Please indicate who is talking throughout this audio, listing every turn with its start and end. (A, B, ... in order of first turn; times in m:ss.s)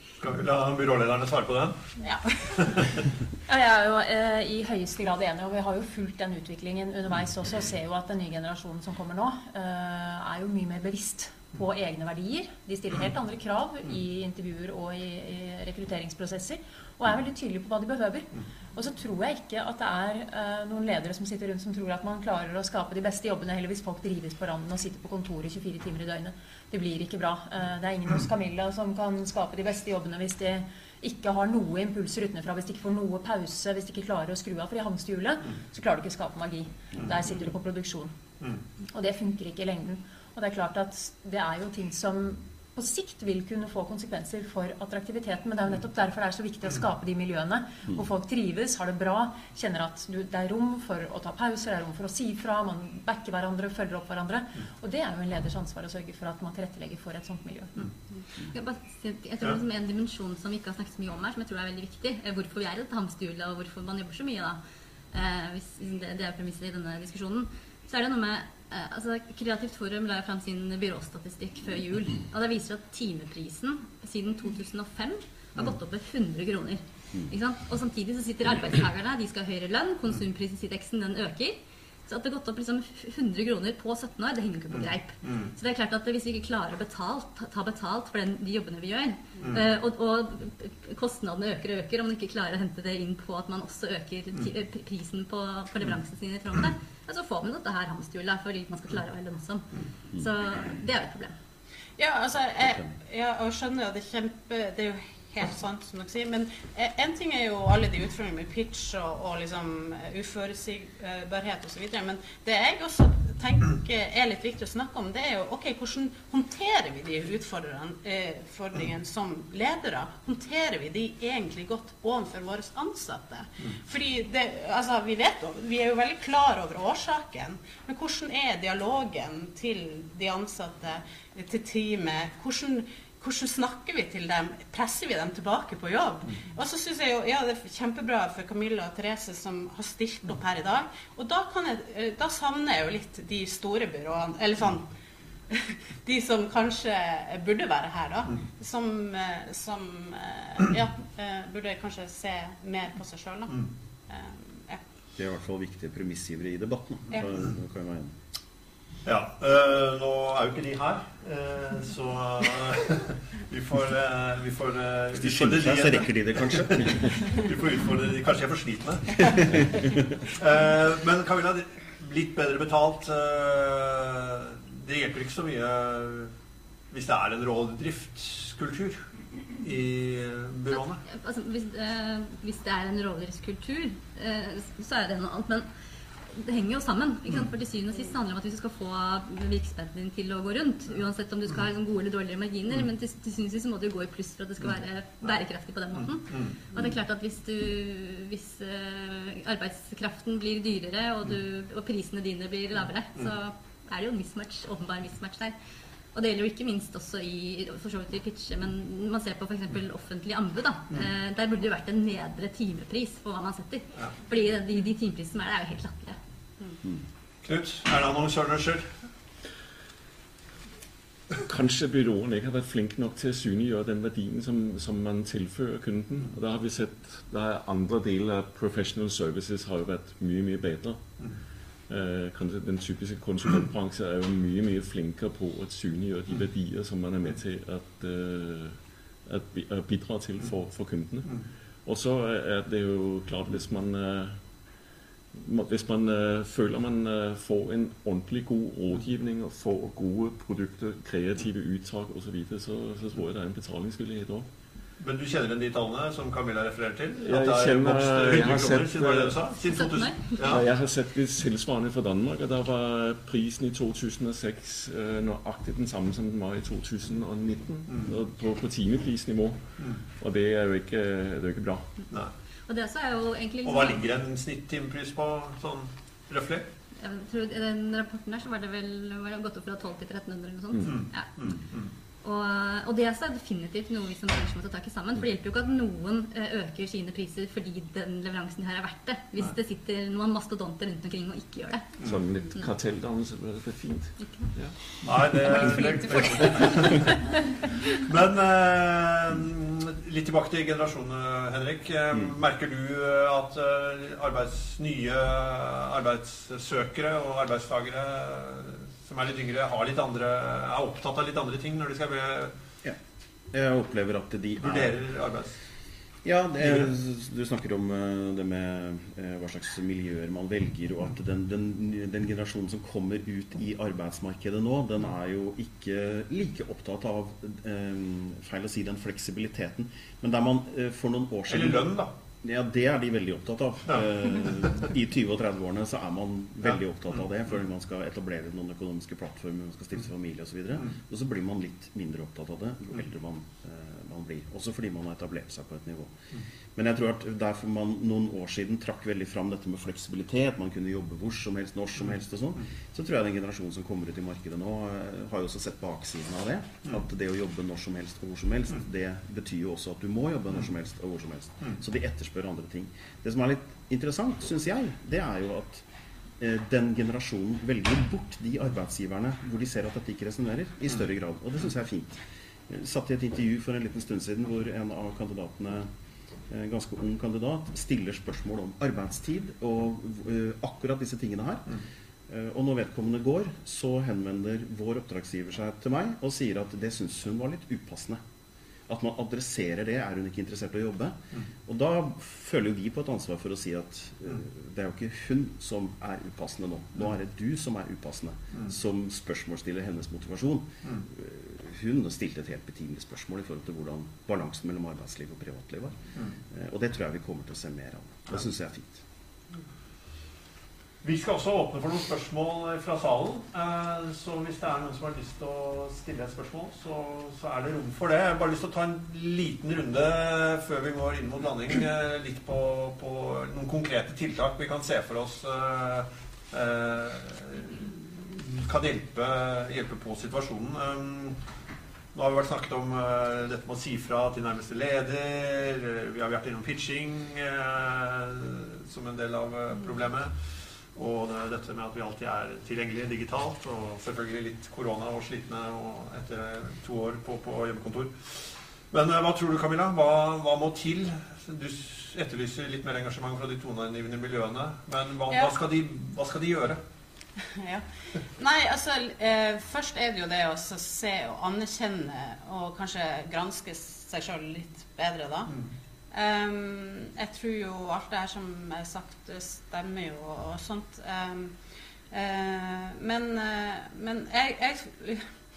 0:00.2-0:01.8 A
0:02.0-0:02.6 B
0:02.5-0:03.0 A
0:03.5-0:38.1 C
0:38.9-0:57.8 C
0:58.5-1:04.6 D
1:05.1-1:41.3 D
1:24.7-1:25.5 A
1:42.0-2:24.9 B
1:42.6-1:42.9 E
2:25.5-2:34.8 B
2:35.2-2:38.1 E
2:39.0-2:49.4 A
2:45.1-2:47.1 E
2:50.4-2:56.3 A
2:56.9-2:59.0 A
2:59.6-3:01.0 A
3:00.7-3:05.7 D
3:06.3-3:25.5 D
3:16.0-3:16.5 A
3:26.1-3:36.2 D
3:37.4-3:38.9 A
3:41.4-3:51.3 F
3:51.9-4:04.4 F
4:05.3-4:14.5 F
4:15.0-4:20.6 A
4:17.2-4:19.4 F
4:19.7-4:20.4 D
4:20.4-4:31.9 F
4:32.7-4:34.0 D
4:33.6-4:36.7 A
4:37.0-4:41.3 D
4:40.8-4:41.9 A
4:42.2-4:51.9 D
4:52.0-4:54.8 F
4:54.2-4:54.5 D
4:55.0-4:57.1 A
4:57.9-5:12.5 A
5:13.5-5:15.0 E
5:14.6-5:15.6 A
5:16.2-5:46.1 E
5:16.6-5:16.9 A
5:31.5-5:32.1 A
5:46.7-6:05.8 E
6:06.4-6:15.9 E
6:16.5-6:28.2 E
6:28.9-6:49.0 E
6:51.0-7:11.4 A
7:12.1-7:20.3 A
7:20.9-7:36.8 A
7:37.5-7:45.5 B
7:46.1-7:51.6 B
7:52.1-7:55.3 B